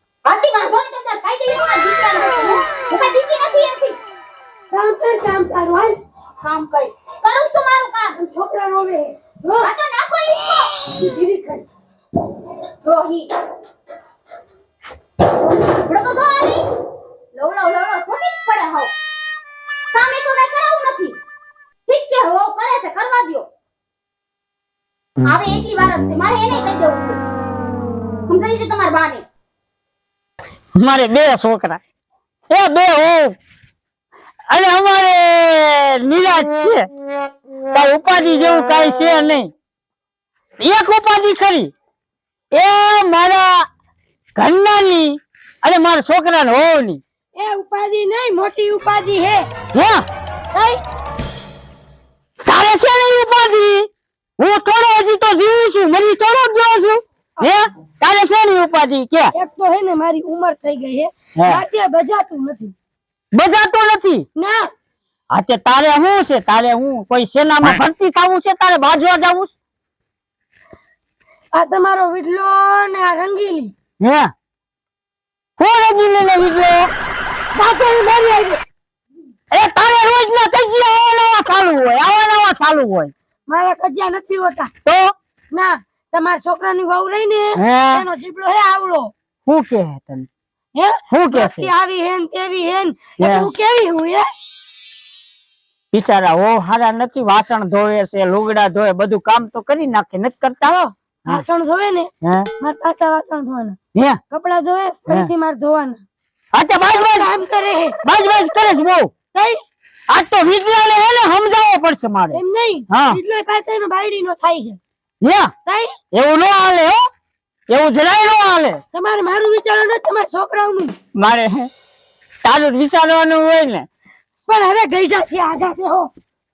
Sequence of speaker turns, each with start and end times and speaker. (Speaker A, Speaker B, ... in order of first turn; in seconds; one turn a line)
Speaker A: 0.2-4.0
Speaker B: 4.7-6.0
Speaker A: 6.4-8.1
Speaker B: 8.2-9.7
Speaker A: 9.6-10.8
Speaker B: 10.9-11.6
Speaker A: 12.8-13.3
Speaker A: 15.2-16.7
Speaker A: 17.3-18.9
Speaker A: 19.9-21.2
Speaker A: 21.9-23.5
Speaker A: 25.2-27.2
Speaker A: 28.3-29.2
Speaker C: 30.8-31.8
Speaker C: 32.5-33.4
Speaker C: 34.5-36.9
Speaker C: 37.7-39.5
Speaker C: 40.6-41.7
Speaker C: 42.5-43.7
Speaker C: 44.4-47.0
Speaker B: 47.3-49.5
Speaker C: 49.7-50.0
Speaker B: 50.5-50.8
Speaker C: 52.4-53.9
Speaker C: 54.4-59.3
Speaker B: 59.3-62.7
Speaker C: 61.4-61.6
Speaker C: 63.3-64.2
Speaker B: 64.4-64.7
Speaker C: 65.3-69.5
Speaker B: 71.5-73.7
Speaker C: 74.0-74.3
Speaker C: 75.6-76.9
Speaker B: 77.5-78.6
Speaker C: 79.5-83.1
Speaker B: 83.5-84.7
Speaker C: 84.8-85.1
Speaker B: 85.5-89.1
Speaker C: 87.5-88.0
Speaker C: 89.5-90.3
Speaker B: 90.8-94.3
Speaker C: 91.1-91.7
Speaker C: 93.2-93.5
Speaker C: 95.9-101.4
Speaker B: 101.3-103.8
Speaker C: 102.2-102.5
Speaker B: 104.3-106.0
Speaker C: 106.5-107.3
Speaker B: 106.9-108.0
Speaker C: 108.0-109.1
Speaker B: 109.3-109.6
Speaker C: 110.1-113.2
Speaker B: 112.3-114.8
Speaker C: 115.2-115.5
Speaker B: 115.7-116.0
Speaker C: 116.1-117.0
Speaker C: 117.7-118.8
Speaker B: 118.9-120.9
Speaker C: 121.2-121.7
Speaker C: 122.4-123.8
Speaker B: 124.5-126.1